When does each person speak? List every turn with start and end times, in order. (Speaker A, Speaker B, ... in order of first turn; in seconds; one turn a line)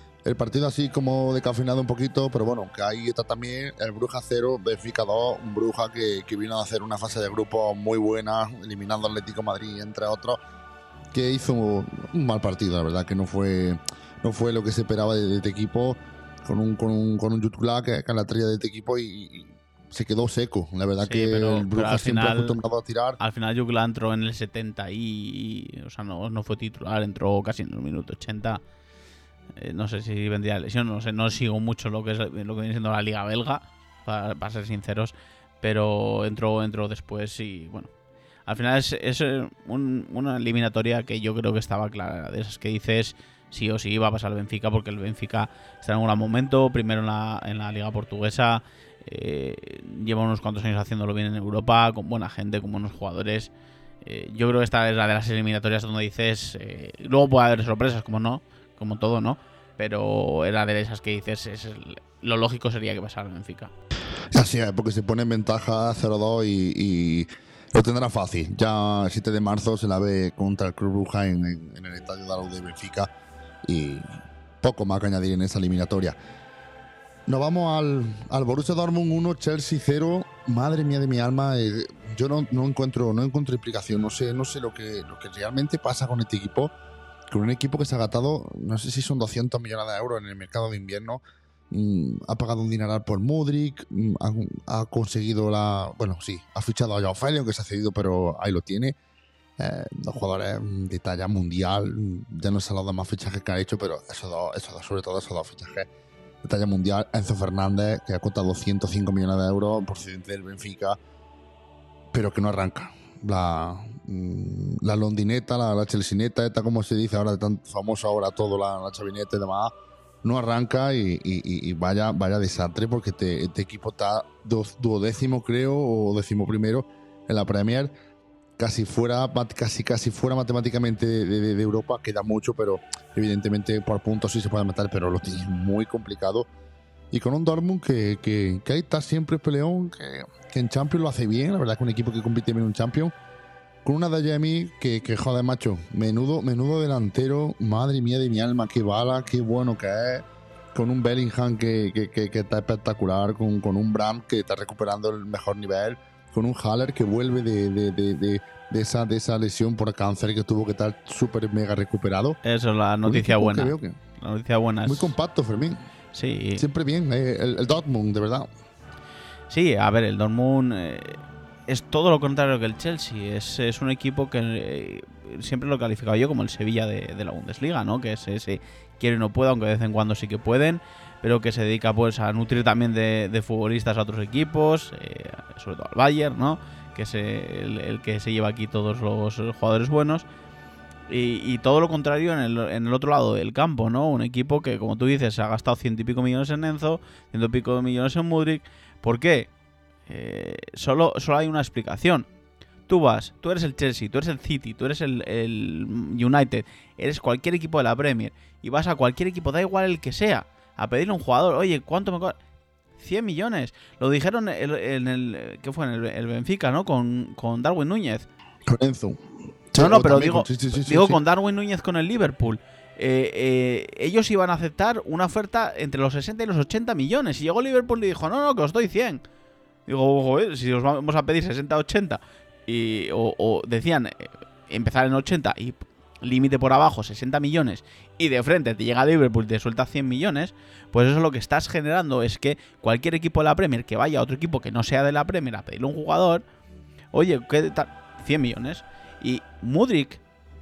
Speaker A: 0.2-10.4
Speaker A: 11.1-23.2
Speaker B: 21.0-22.6
Speaker B: 23.2-28.6
Speaker B: 29.6-37.9
Speaker B: 38.5-53.5
Speaker B: 54.0-63.7
Speaker A: 64.3-73.1
Speaker A: 73.6-76.2
Speaker A: 77.3-86.7
Speaker A: 87.3-99.0
Speaker A: 99.6-105.9
Speaker A: 106.4-111.0
Speaker A: 112.1-127.9
Speaker A: 128.6-136.5
Speaker A: 137.1-143.1
Speaker A: 143.8-162.4
Speaker B: 162.4-165.1
Speaker A: 163.1-164.0
Speaker A: 164.8-165.8
Speaker B: 166.1-166.6
Speaker A: 166.5-168.5
Speaker B: 169.5-190.2
Speaker B: 191.1-199.5
Speaker B: 200.1-202.3
Speaker B: 202.9-212.4
Speaker B: 213.0-218.3
Speaker A: 218.7-219.2
Speaker A: 219.7-221.2
Speaker B: 219.8-229.2
Speaker B: 229.9-246.4
Speaker B: 247.1-250.2